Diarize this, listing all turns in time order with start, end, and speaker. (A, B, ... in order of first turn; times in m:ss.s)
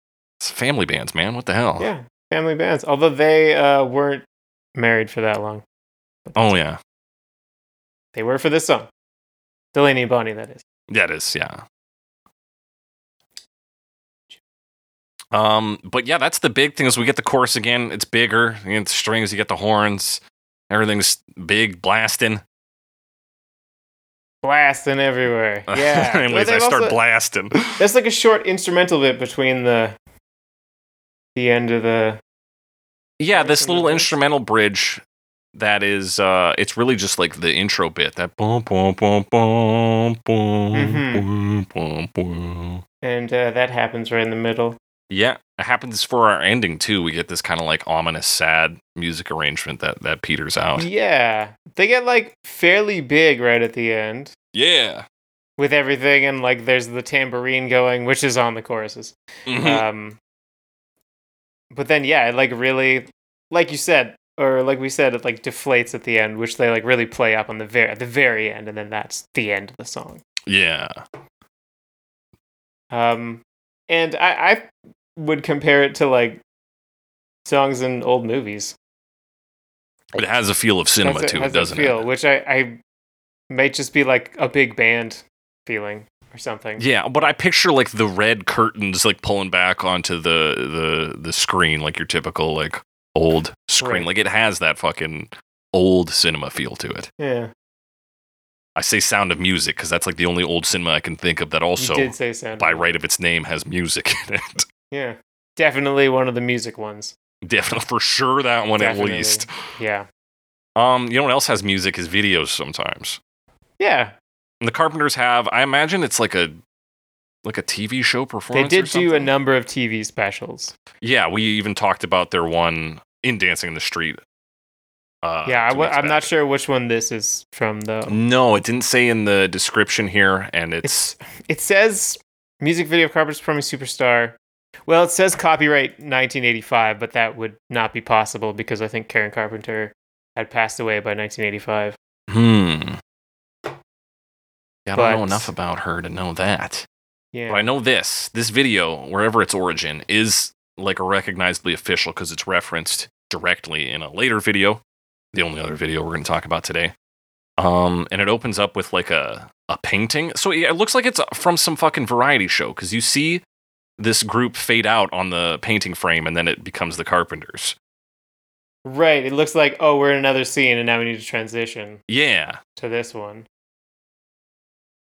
0:00.4-0:01.9 A
0:01.8-0:04.2 B
0:04.7-0:05.6 B
0:06.2-0:06.5 B
0:06.4-0:06.8 A
0:08.1-0:08.9 B
0:09.7-0:10.6 B
0:10.9-0:11.6 A
0:15.3-0:22.4 A
0:24.4-0:27.0 B
0:25.7-0:27.8 A
0:27.8-0:30.0 B
0:31.3-0:32.2 B
0:33.2-0:35.0 A
0:33.3-0:34.2 B
0:35.5-0:42.8 A
0:40.7-0:41.2 B
0:43.0-0:44.8 B
0:45.1-0:50.9 A
0:50.8-0:54.3 B
0:54.5-0:55.0 A
0:55.6-1:00.2 B
0:59.5-0:59.8 A
1:01.7-1:10.2 B
1:10.4-1:11.0 A
1:12.9-1:16.4 B
1:17.4-1:18.7 B
1:20.2-1:22.0 A
1:21.0-1:22.8 B
1:23.5-1:26.8 B
1:26.8-1:37.1 A
1:33.8-1:34.1 B
1:37.2-1:37.5 B
1:38.8-1:44.6 A
1:41.8-1:42.9 B
1:44.9-1:47.1 B
1:47.4-1:49.5 A
1:48.8-1:50.1 B
1:50.8-1:53.2 A
1:53.8-1:54.1 B
1:54.6-1:56.6 A
1:57.4-1:59.3 A
1:58.5-2:00.7 B
2:01.0-2:04.2 A
2:05.2-2:06.3 A
2:05.4-2:08.1 B
2:08.1-2:11.1 A
2:10.8-2:22.0 B
2:22.3-2:23.0 A
2:24.8-2:26.8 A
2:24.9-2:25.5 B
2:27.3-2:27.6 B
2:27.5-2:36.9 A
2:37.6-2:43.4 A
2:44.0-2:47.7 A
2:48.8-2:52.0 B
2:52.1-2:52.6 A
2:52.8-2:53.4 B